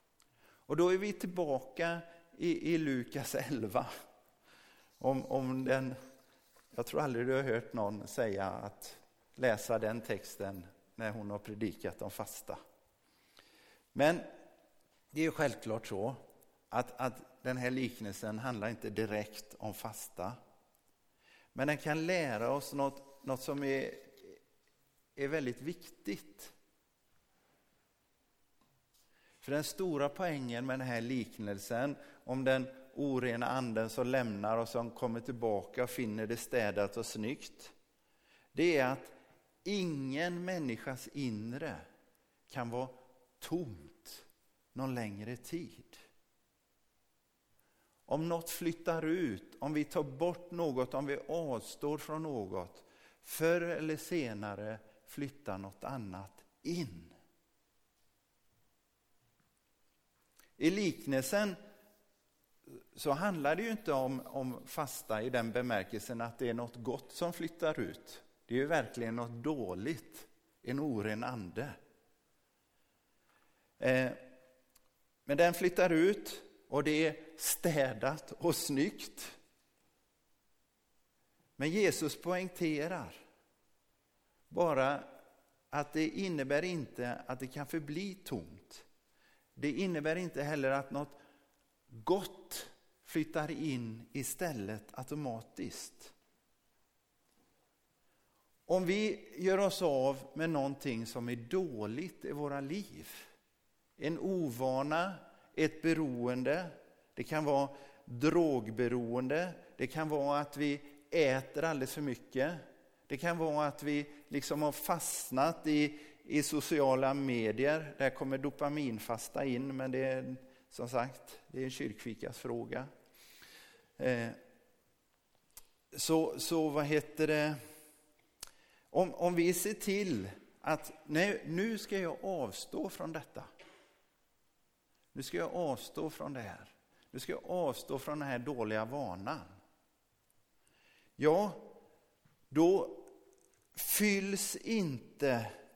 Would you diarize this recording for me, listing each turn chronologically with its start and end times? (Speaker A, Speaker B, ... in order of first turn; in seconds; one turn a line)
Speaker A: 0.7-3.9
Speaker A: 5.0-6.0
Speaker A: 6.7-12.6
Speaker A: 13.9-14.3
Speaker A: 15.1-20.4
Speaker A: 21.5-24.4
Speaker A: 25.1-26.5
Speaker A: 29.4-37.7
Speaker A: 38.5-41.9
Speaker A: 42.5-46.0
Speaker A: 48.1-57.1
Speaker A: 60.6-61.6
Speaker A: 62.9-71.8
Speaker A: 73.8-74.2
Speaker A: 75.2-79.4
Speaker A: 81.6-83.2
Speaker A: 84.5-85.1
Speaker A: 85.7-88.8
Speaker A: 89.6-91.2
Speaker A: 91.9-96.1
Speaker A: 98.7-103.3
Speaker A: 104.0-122.9
Speaker A: 124.0-124.4
Speaker A: 125.9-127.6
Speaker A: 128.9-133.5
Speaker A: 135.1-139.5
Speaker A: 141.2-141.8
Speaker A: 142.5-143.1
Speaker A: 143.8-145.5